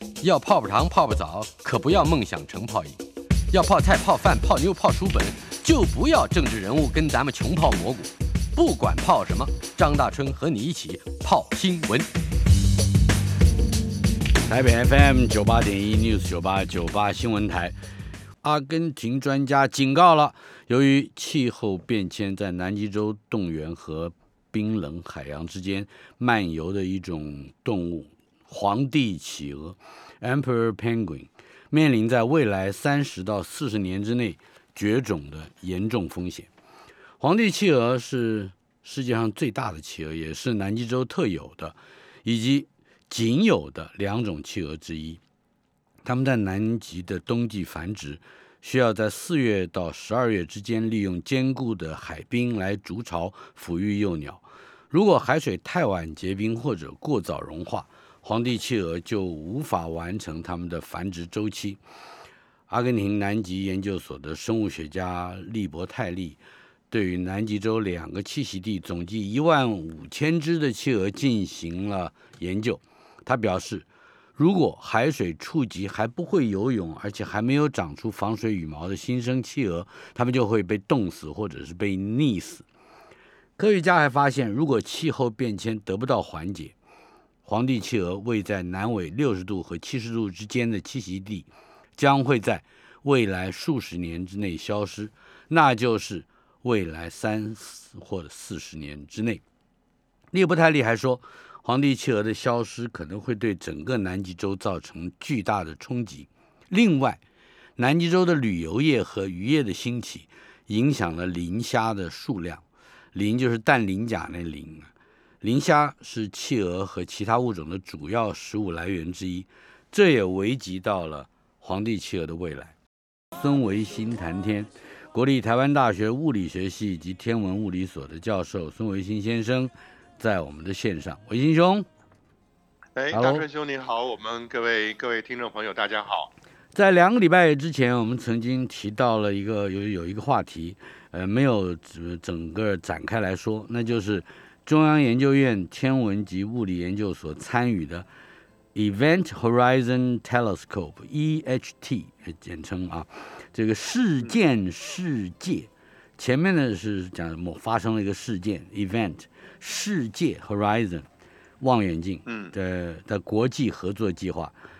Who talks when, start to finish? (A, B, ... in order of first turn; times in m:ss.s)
0:00.2-0:03.0 A
0:00.3-0:02.2 B
0:03.5-0:12.1 A
0:03.6-0:04.0 B
0:08.6-0:08.9 B
0:14.4-0:17.7 B
0:18.4-0:36.5 B
0:37.2-0:45.2 B
0:46.0-1:01.8 B
1:02.7-1:06.4 B
1:06.9-1:22.6 B
1:23.6-1:26.7 B
1:27.4-1:39.4 B
1:40.3-1:47.2 B
1:47.8-1:54.9 B
1:55.4-2:02.7 B
2:03.3-2:11.9 B
2:13.0-2:16.3 C
2:13.1-2:13.4 B
2:16.7-2:28.0 B
2:28.7-2:41.1 B
2:41.6-2:44.5 B
2:42.2-2:42.5 C